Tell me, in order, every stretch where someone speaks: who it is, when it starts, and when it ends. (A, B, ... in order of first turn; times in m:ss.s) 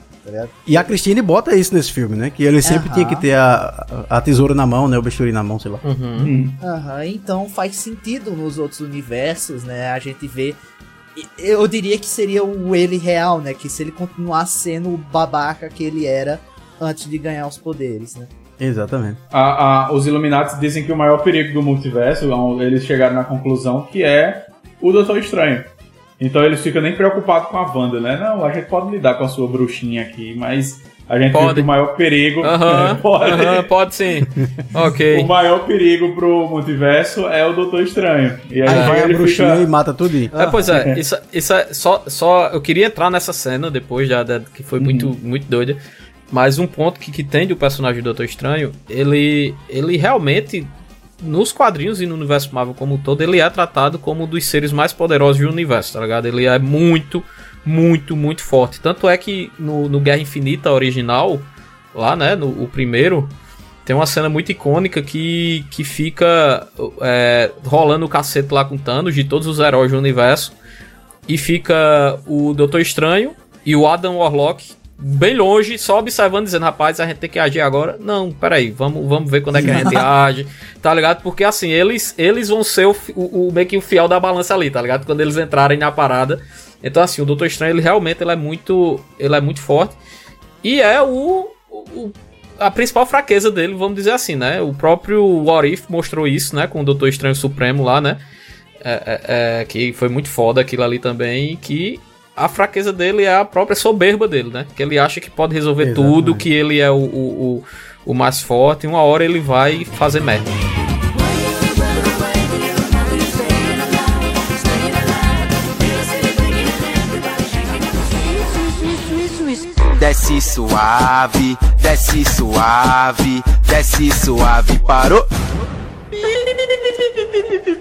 0:00.2-0:00.8 A
0:00.7-0:05.8 B
0:02.6-0:03.2 A
0:05.8-0:06.3 C
0:06.2-0:06.6 D
0:06.6-0:10.6 A
0:11.2-0:18.3 A
0:18.6-0:19.2 B
0:19.3-0:33.7 D
0:31.3-0:31.7 C
0:32.4-0:35.3 C
0:35.1-0:39.7 D
0:38.7-0:39.0 C
0:38.7-0:40.4 B
0:40.3-0:40.6 A
0:40.4-1:03.3 C
0:40.7-0:41.0 D
0:44.8-0:45.1 D
1:03.9-1:10.6 C
1:11.3-1:30.0 C
1:30.6-1:38.2 C
1:38.8-1:50.6 C
1:45.8-1:46.5 B
2:00.0-2:05.3 E